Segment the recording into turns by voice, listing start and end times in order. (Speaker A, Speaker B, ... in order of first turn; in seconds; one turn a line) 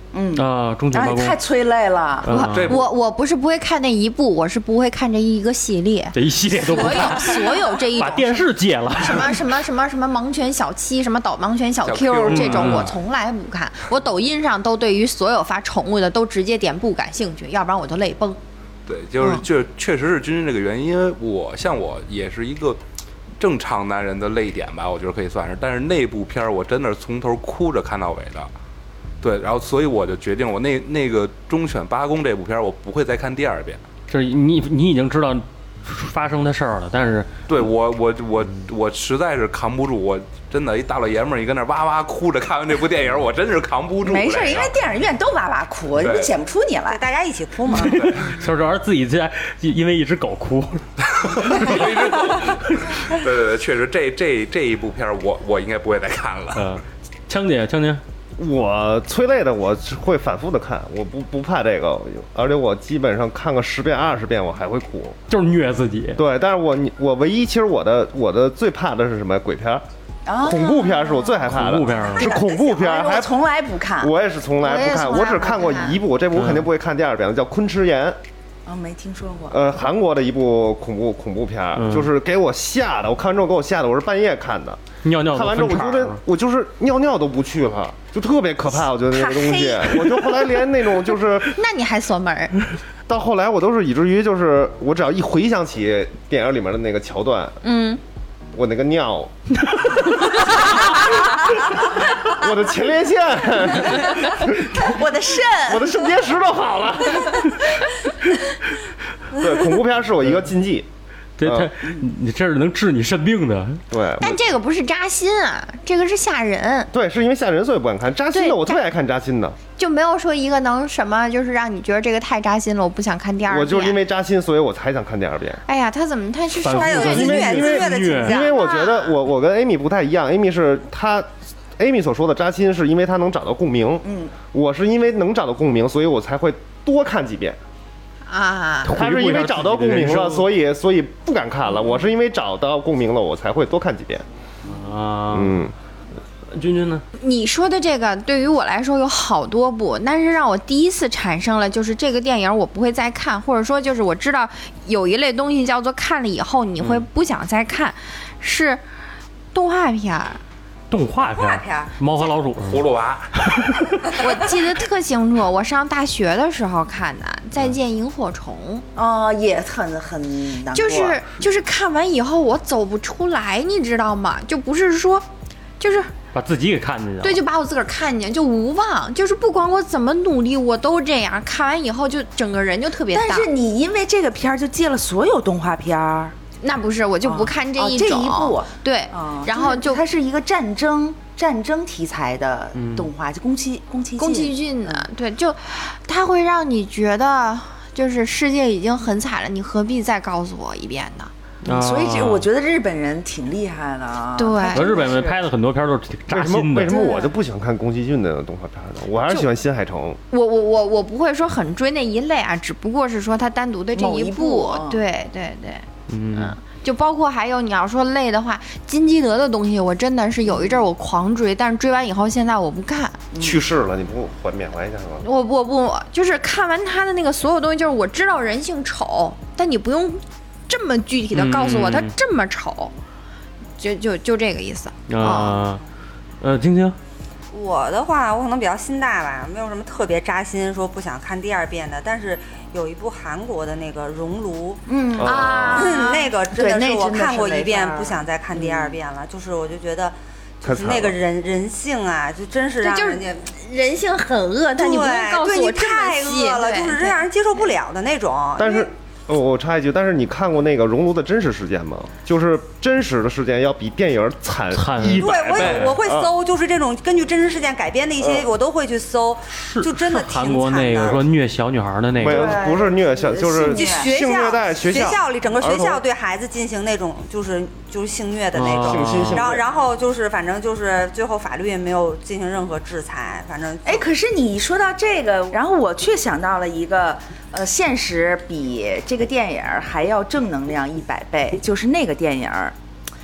Speaker A: 0.1-2.3
Speaker B: 0.3-1.4
Speaker B: 2.2-2.8
Speaker C: 2.3-18.4
Speaker D: 2.5-2.9
Speaker B: 6.1-7.4
Speaker B: 8.0-9.4
Speaker D: 11.8-13.0
Speaker B: 12.3-12.9
Speaker D: 18.9-22.8
Speaker D: 23.4-28.5
Speaker D: 29.2-33.8
Speaker B: 34.1-37.3
Speaker D: 37.5-44.8
Speaker A: 44.0-47.0
Speaker D: 46.0-46.3
Speaker E: 46.9-48.1
Speaker B: 47.7-50.9
Speaker D: 51.1-56.6
Speaker B: 51.4-51.9
Speaker B: 56.5-58.0
Speaker F: 58.4-65.2
Speaker B: 65.3-66.2
Speaker F: 66.2-69.8
Speaker A: 70.3-70.8
Speaker F: 70.4-73.3
Speaker B: 71.5-72.3
Speaker A: 72.1-74.1
Speaker F: 74.0-78.2
Speaker C: 74.6-76.0
Speaker B: 76.3-76.7
Speaker A: 78.7-79.6
Speaker F: 79.5-91.5
Speaker B: 81.8-82.1
Speaker B: 85.0-86.2
Speaker A: 89.1-90.2
Speaker C: 91.5-92.6
Speaker F: 93.1-97.6
Speaker C: 97.6-98.0
Speaker F: 98.5-104.9
Speaker A: 104.7-105.9
Speaker F: 105.7-107.7
Speaker F: 109.3-110.9
Speaker B: 111.4-113.8
Speaker F: 111.4-111.7
Speaker F: 113.9-114.4
Speaker C: 114.2-116.9
Speaker F: 116.9-119.6
Speaker C: 118.3-118.8
Speaker C: 119.8-124.0
Speaker F: 123.5-125.6
Speaker C: 125.7-127.8
Speaker E: 126.6-128.8
Speaker B: 126.6-128.4
Speaker F: 127.0-137.6
Speaker C: 128.4-129.1
Speaker A: 134.0-134.3
Speaker C: 138.3-138.9
Speaker B: 138.8-140.5
Speaker F: 138.9-144.2
Speaker B: 144.7-145.7
Speaker F: 145.3-145.7
Speaker B: 146.5-147.0
Speaker C: 147.2-158.8
Speaker B: 156.8-157.1
Speaker C: 159.5-160.4
Speaker B: 160.9-164.1
Speaker D: 162.7-163.3
Speaker C: 164.2-168.8
Speaker A: 169.0-171.2
Speaker C: 170.7-175.3
Speaker C: 175.8-176.1
Speaker B: 176.3-177.4
Speaker C: 177.2-183.5
Speaker A: 183.1-186.3
Speaker C: 186.6-190.0
Speaker A: 187.2-195.1
Speaker B: 192.8-193.1
Speaker C: 194.2-201.3
Speaker B: 201.6-202.5
Speaker A: 201.7-205.5
Speaker C: 204.4-205.0
Speaker B: 204.7-207.0
Speaker F: 206.3-210.2
Speaker C: 206.9-207.2
Speaker C: 210.3-223.2
Speaker A: 213.9-215.0
Speaker B: 216.1-216.6
Speaker A: 220.5-220.8
Speaker A: 223.3-223.6
Speaker F: 223.4-225.2
Speaker C: 225.2-232.9
Speaker B: 231.3-232.1
Speaker C: 233.8-235.7
Speaker B: 235.1-235.8
Speaker B: 236.4-237.0
Speaker E: 237.5-244.8
Speaker A: 244.9-245.8
Speaker F: 245.2-245.9
Speaker C: 245.2-246.3
Speaker E: 245.7-253.5
Speaker A: 246.5-249.0
Speaker F: 250.6-251.2
Speaker C: 252.8-257.6
Speaker E: 254.8-258.9
Speaker F: 258.6-266.3
Speaker B: 264.7-266.0
Speaker E: 265.1-271.2
Speaker B: 269.6-272.6
Speaker F: 272.2-276.0
Speaker A: 272.2-274.1
Speaker E: 273.6-284.1
Speaker B: 278.6-279.5
Speaker F: 278.8-279.6
Speaker A: 283.9-292.8